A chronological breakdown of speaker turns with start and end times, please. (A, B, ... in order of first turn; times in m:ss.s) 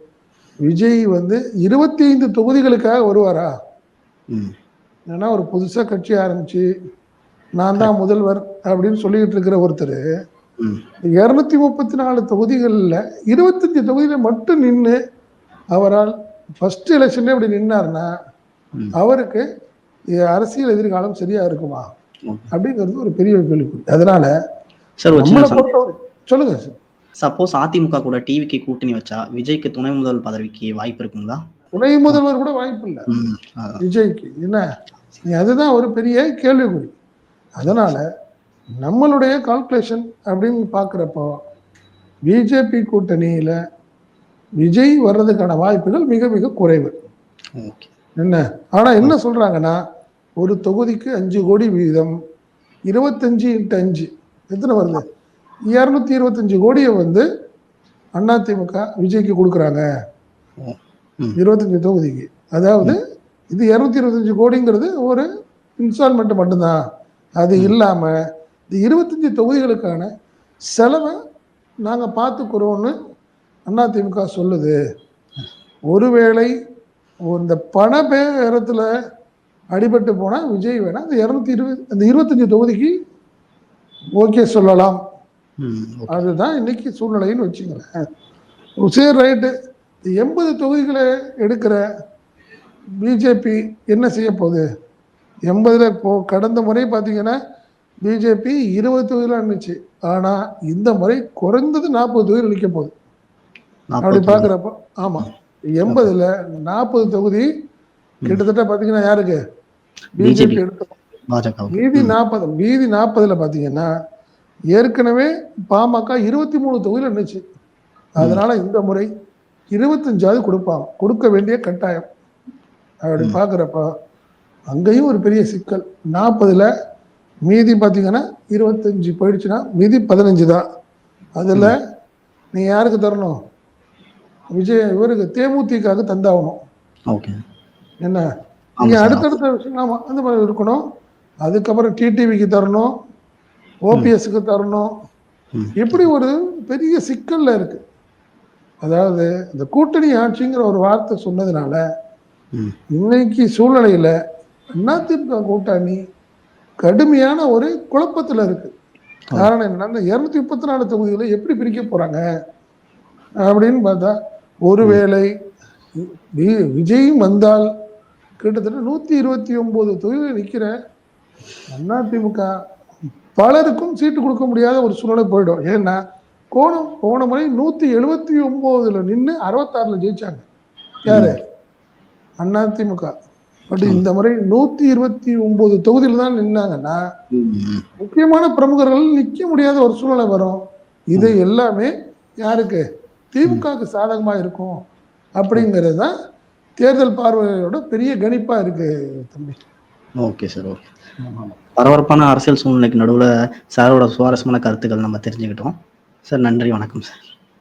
0:00.6-0:03.5 A
0:05.1-0:06.6 A
0:07.6-0:10.0 A
0:11.2-0:15.0 A
0:15.7-0:18.1 A
0:18.9-0:19.4 A
0:20.2-0:21.8 A
0:22.5-0:24.3 A
0:25.0-0:25.7 B
0:25.1-0:26.8 A
0:27.2-0:31.4 B
0:31.8-0:33.1 A
0:33.1-0:33.8 B
0:33.8-0:34.6 A
0:35.3-0:36.9 A
0:37.6-0:38.0 A
0:37.6-0:38.0 B
0:38.8-0:41.4 A
0:42.3-0:43.6 A
0:44.6-0:46.9 A
0:47.6-0:47.9 B
0:48.2-0:49.8 A
0:50.4-0:52.1 A
0:52.9-0:55.0 A
0:55.7-0:57.2 A
0:58.2-0:59.8 A
1:00.6-1:01.4 B
1:01.4-1:03.0 A
1:03.5-1:05.2 A
1:05.8-1:06.8 A
1:07.4-1:08.1 A
1:08.7-1:10.1 A
1:10.7-1:11.2 A
1:11.8-1:12.9 A
1:13.7-1:14.8 A
1:15.9-1:16.5 A
1:17.3-1:18.9 A
1:19.7-1:22.9 A
1:24.2-1:25.0 A
1:25.6-1:26.2 B
1:26.1-1:27.9 A
1:28.8-1:29.5 A
1:30.1-1:31.8 A
1:33.0-1:34.6 A
1:35.5-1:37.4 A
1:38.0-1:42.9 A
1:43.9-1:44.5 B
1:44.0-1:47.5 A
1:48.2-1:49.4 A
1:50.2-1:51.0 A
1:50.2-1:50.6 B
1:51.3-1:52.1 B
1:51.7-1:53.9 A
1:54.7-1:57.4 A
1:58.2-1:59.1 A
1:59.7-2:02.1 A
2:03.0-2:03.9 A
2:04.7-2:06.7 A
2:07.5-2:10.6 A
2:11.4-2:11.8 A
2:12.5-2:13.4 A
2:14.6-2:16.6 A
2:17.1-2:17.4 B
2:18.8-2:19.3 B
2:18.8-2:20.8 A
2:21.4-2:22.9 A
2:23.8-2:24.9 A
2:25.5-2:26.1 B
2:25.8-2:27.8 A
2:28.8-2:31.8 A
2:32.9-2:34.1 A
2:34.8-2:36.0 A
2:36.8-2:38.7 A
2:39.4-2:42.2 A
2:43.4-2:45.3 A
2:46.0-2:47.7 A
2:48.4-2:50.7 A
2:51.7-2:52.5 A
2:53.4-2:56.0 A
2:56.5-3:00.4 A
3:01.1-3:01.4 A
3:01.1-3:01.4 B
3:02.4-3:03.1 A
3:03.7-3:07.0 A
3:07.3-3:07.8 B
3:08.0-3:14.7 A
3:15.4-3:16.1 A
3:16.8-3:19.6 A
3:20.2-3:20.8 B
3:21.2-3:21.6 A
3:21.8-3:27.3 B